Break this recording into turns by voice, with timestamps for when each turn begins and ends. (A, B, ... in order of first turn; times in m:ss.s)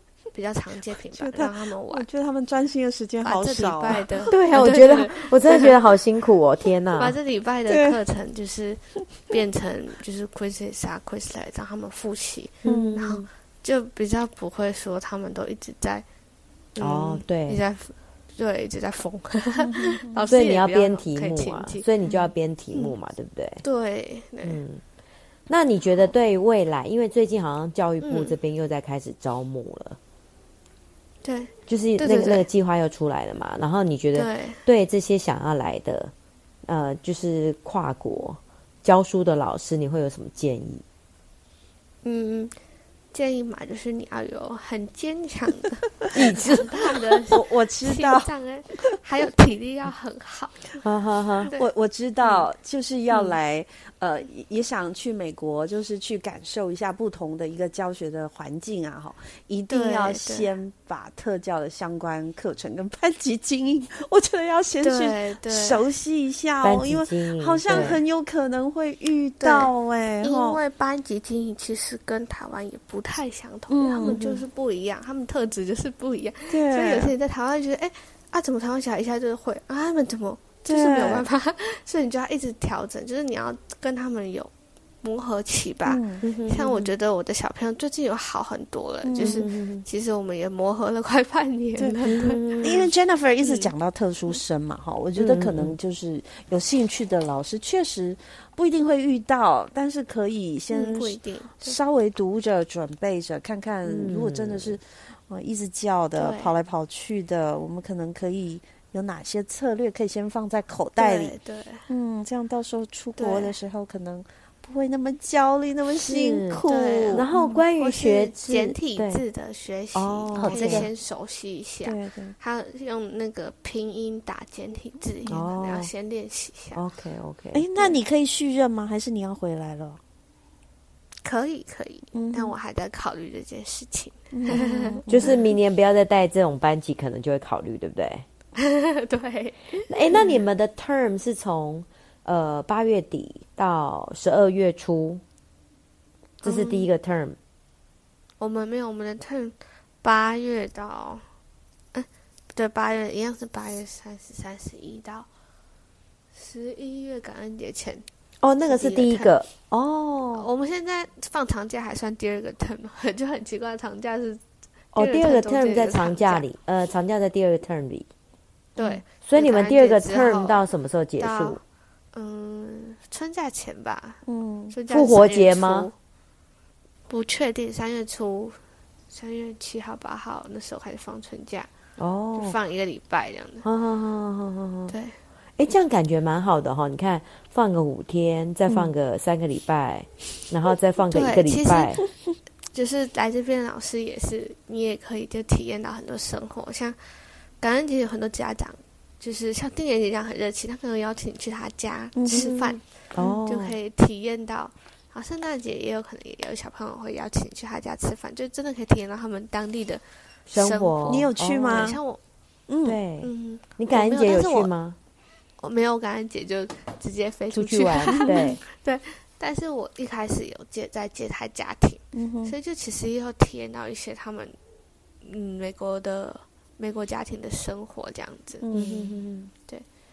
0:00.3-0:02.1 A
0:01.1-0:04.3 B
0:03.2-0:05.8 A
0:04.3-0:07.2 C
0:07.0-0:16.1 A
0:07.7-0:08.0 B
0:12.6-0:13.2 C
0:12.6-0:13.2 B
0:16.8-0:21.9 A
0:16.8-0:17.6 C
0:19.6-0:20.2 B
0:20.3-0:23.6 C
0:22.0-0:22.3 B
0:23.6-0:24.6 A
0:24.4-0:24.8 C
0:25.5-0:30.0 C
0:28.0-0:28.3 A
0:31.2-0:32.5 A
0:31.7-0:36.1 C
0:34.1-0:34.6 A
0:36.7-0:40.8 C
0:42.0-0:42.6 A
0:43.1-0:50.6 A
0:46.1-0:46.7 C
0:47.3-0:48.3 B
0:50.8-0:51.5 C
0:51.5-1:10.6 B
0:59.7-1:00.5 A
1:04.8-1:05.8 A
1:06.6-1:08.0 C
1:07.7-1:08.0 A
1:09.4-1:24.5 A
1:13.7-1:14.2 B
1:14.0-1:14.4 C
1:16.5-1:17.1 B
1:20.7-1:21.3 B
1:25.0-1:32.8 A
1:25.9-1:26.2 B
1:26.2-1:26.9 C
1:29.0-1:29.4 B
1:29.2-1:29.9 C
1:31.8-1:51.4 B
1:32.1-1:32.9 C
1:33.4-1:33.7 A
1:35.2-1:35.8 C
1:40.7-1:41.8 A
1:43.9-1:44.8 C
1:46.2-1:46.5 A
1:51.0-1:51.9 A
1:51.9-1:57.7 B
1:53.2-1:53.5 A
1:56.0-1:59.2 C
1:56.7-2:06.8 A
1:59.9-2:00.9 C
2:00.4-2:00.9 B
2:01.8-2:02.4 B
2:05.3-2:05.9 C
2:06.8-2:07.6 C
2:07.5-2:10.0 B
2:11.2-2:15.3 A
2:12.1-2:12.6 B
2:14.3-2:15.5 B
2:15.1-2:18.2 C
2:18.6-2:20.2 A
2:19.9-2:25.2 C
2:20.1-2:20.4 B
2:26.4-2:26.9 A
2:26.4-2:27.4 C
2:28.4-2:31.3 A
2:31.9-2:35.3 A
2:36.3-2:38.1 A
2:38.4-2:40.5 C
2:38.6-2:39.3 A
2:40.3-2:44.4 A
2:44.9-2:48.1 C
2:45.0-2:46.4 A
2:48.8-2:50.6 A
2:49.2-2:51.6 C
2:51.2-2:51.6 A
2:52.1-2:56.0 A
2:54.3-2:54.8 B
2:54.9-2:55.9 C
2:57.1-2:58.6 A
2:59.1-3:01.7 A
3:02.0-3:02.6 C
3:02.4-3:03.6 A
3:03.6-3:04.9 C
3:04.9-3:05.2 A
3:05.6-3:12.0 C
3:08.7-3:08.9 B
3:11.1-3:12.0 A
3:12.7-3:17.0 A
3:17.6-3:22.8 A
3:22.2-3:22.7 B
3:22.3-3:22.6 C
3:23.1-3:23.8 C
3:23.4-3:32.2 A
3:30.5-3:32.0 C
3:31.1-3:32.0 B
3:32.7-3:33.0 B
3:32.8-3:35.0 C
3:33.2-3:34.7 A
3:35.6-3:44.6 A
3:37.5-3:38.6 C
3:38.2-3:38.6 B
3:42.1-3:42.5 B
3:45.2-3:48.7 A
3:48.6-3:49.1 B
3:48.7-3:49.5 C